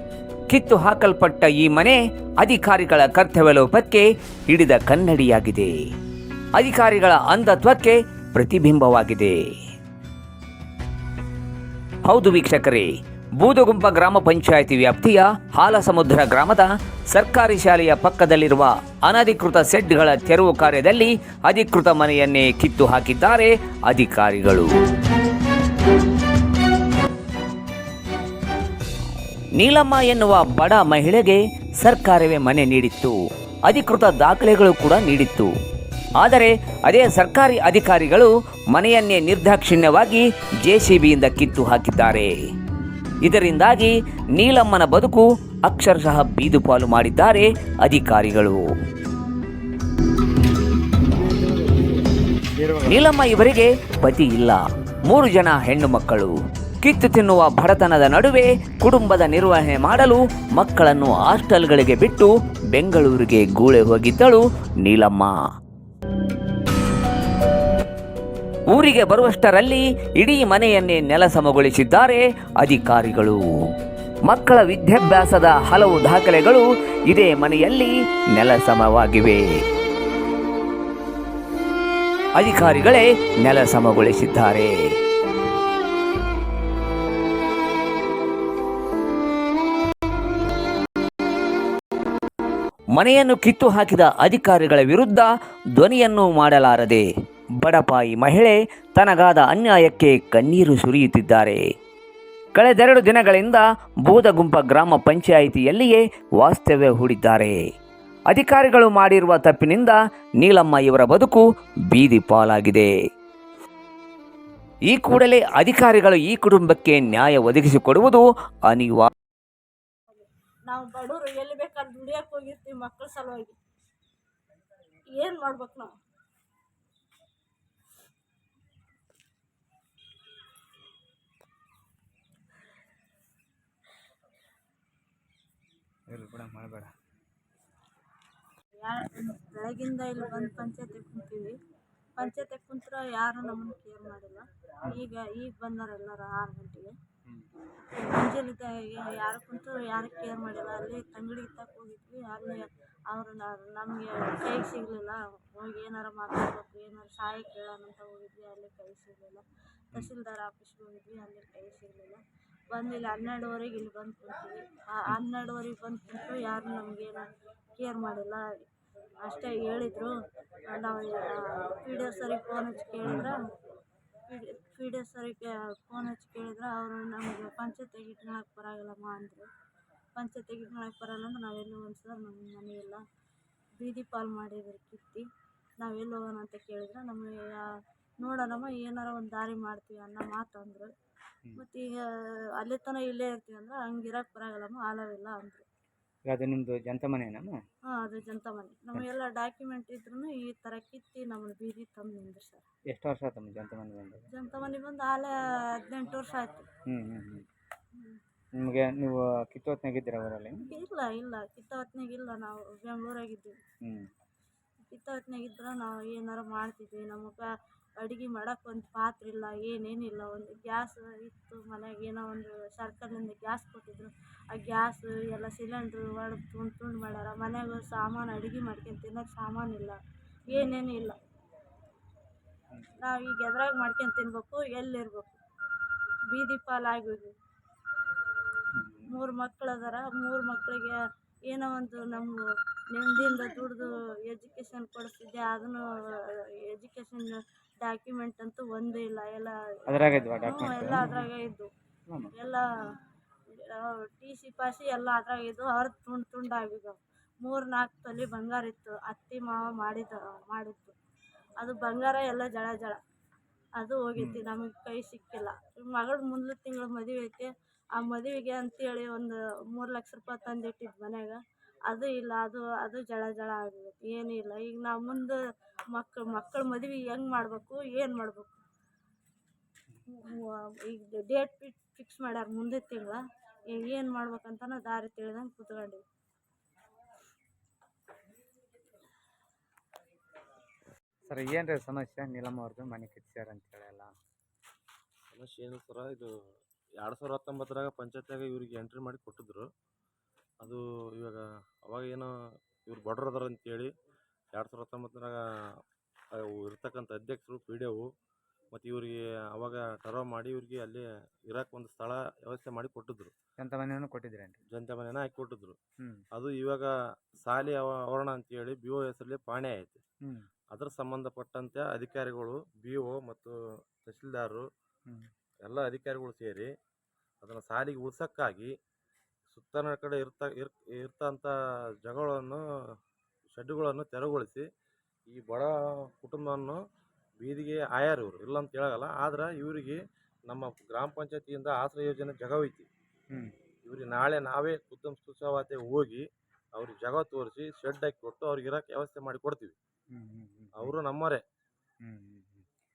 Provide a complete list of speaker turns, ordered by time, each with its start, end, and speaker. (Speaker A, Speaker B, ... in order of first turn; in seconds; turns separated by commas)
Speaker A: 0.5-5.7, Speaker A: 6.6-9.4, Speaker A: 12.0-24.7, Speaker A: 29.6-33.1, Speaker A: 33.7-35.5, Speaker A: 36.2-42.3, Speaker A: 43.2-48.6, Speaker B: 51.3-51.9, Speaker B: 52.5-53.1, Speaker A: 52.9-65.4, Speaker A: 68.7-73.4, Speaker A: 74.2-79.4, Speaker A: 82.3-84.7, Speaker A: 92.9-97.1, Speaker A: 97.6-101.6, Speaker A: 102.5-107.6, Speaker A: 108.3-112.9, Speaker A: 114.9-119.1, Speaker C: 120.1-123.6, Speaker C: 125.1-125.9, Speaker B: 136.1-136.9, Speaker C: 138.8-141.6, Speaker C: 142.2-146.9, Speaker C: 147.9-168.5, Speaker C: 169.2-170.1, Speaker C: 170.7-173.4, Speaker B: 173.0-173.3, Speaker C: 174.3-179.5, Speaker C: 180.1-183.0, Speaker C: 183.8-185.2, Speaker C: 185.8-187.7, Speaker C: 188.2-190.9, Speaker C: 191.6-195.7, Speaker B: 196.3-197.6, Speaker C: 197.9-202.6, Speaker B: 202.9-204.2, Speaker C: 204.3-206.7, Speaker B: 206.9-207.4, Speaker B: 208.6-210.6, Speaker C: 210.6-213.6, Speaker C: 214.9-217.5, Speaker C: 218.0-230.0, Speaker C: 230.5-231.2, Speaker C: 233.0-235.4, Speaker C: 236.3-237.3, Speaker B: 238.8-239.1, Speaker C: 239.1-241.0, Speaker C: 241.5-242.4, Speaker C: 242.9-249.6, Speaker B: 249.9-251.1, Speaker C: 250.4-251.7, Speaker C: 252.3-252.6, Speaker C: 253.6-260.9, Speaker C: 261.6-263.0, Speaker C: 263.8-275.4, Speaker B: 264.2-264.4, Speaker C: 275.9-278.6, Speaker C: 280.1-286.0, Speaker B: 291.3-294.1, Speaker D: 295.3-296.3, Speaker D: 297.0-299.7, Speaker D: 300.6-302.3, Speaker D: 302.9-303.9, Speaker D: 304.5-305.8, Speaker D: 306.3-308.1, Speaker D: 308.7-313.3, Speaker B: 313.6-314.6, Speaker D: 314.7-315.8, Speaker D: 316.3-320.0, Speaker D: 320.7-324.6, Speaker D: 325.6-326.7, Speaker D: 327.4-328.7, Speaker D: 329.5-332.6, Speaker D: 333.5-334.6, Speaker D: 335.3-336.8, Speaker D: 337.4-342.9, Speaker D: 343.9-349.7, Speaker B: 350.1-350.9, Speaker D: 350.7-351.4, Speaker B: 352.0-352.6